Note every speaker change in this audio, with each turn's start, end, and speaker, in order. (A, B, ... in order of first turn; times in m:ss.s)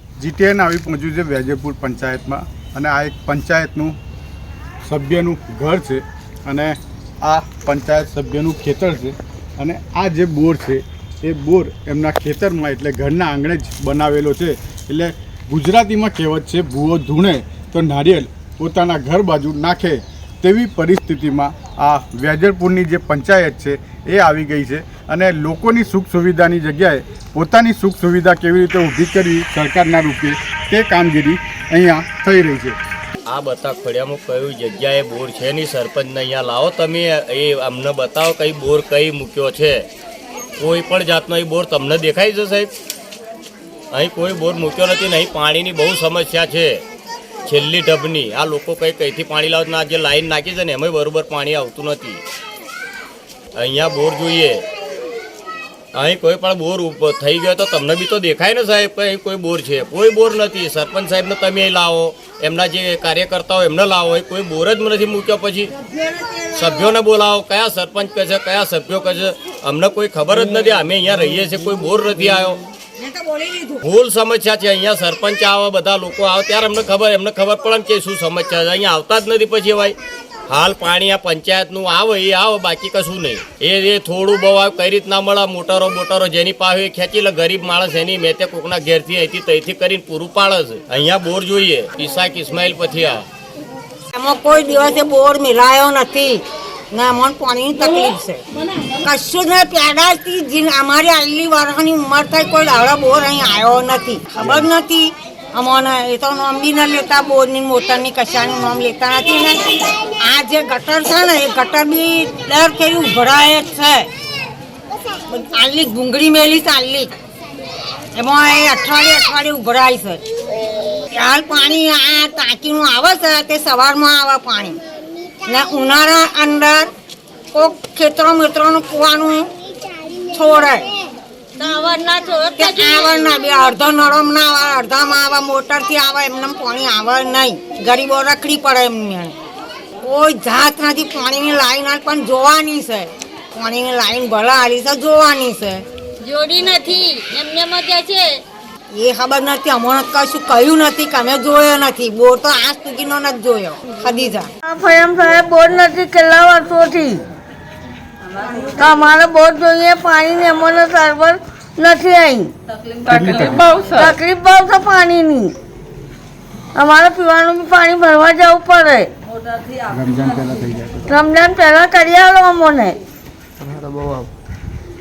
0:00.2-0:04.0 A
0:04.8-0:32.8 A
0:33.3-0:39.9 B
0:40.6-0:42.7 B
0:43.9-0:46.8 B
0:47.5-0:52.2 B
0:53.6-0:54.6 B
0:56.0-1:05.7 B
1:05.7-1:07.0 C
1:06.6-1:12.6 B
1:13.0-1:13.9 C
1:13.8-1:20.0 B
1:20.5-1:33.2 B
1:34.1-1:38.4 C
1:39.0-1:54.1 C
1:44.4-1:44.6 A
1:55.3-1:57.1 C
1:58.2-2:00.2 C
2:01.1-2:04.8 C
2:05.5-2:06.9 C
2:07.5-2:09.5 C
2:10.3-2:10.9 C
2:11.7-2:19.4 C
2:12.6-2:13.1 D
2:20.0-2:25.8 C
2:26.2-2:28.4 D
2:28.9-2:34.5 C
2:34.7-2:37.2 E
2:38.7-2:42.5 E
2:43.1-2:43.8 A
2:43.1-2:43.7 D
2:43.8-2:45.5 E
2:46.8-2:49.1 E
2:49.9-2:51.1 A
2:51.1-2:53.0 E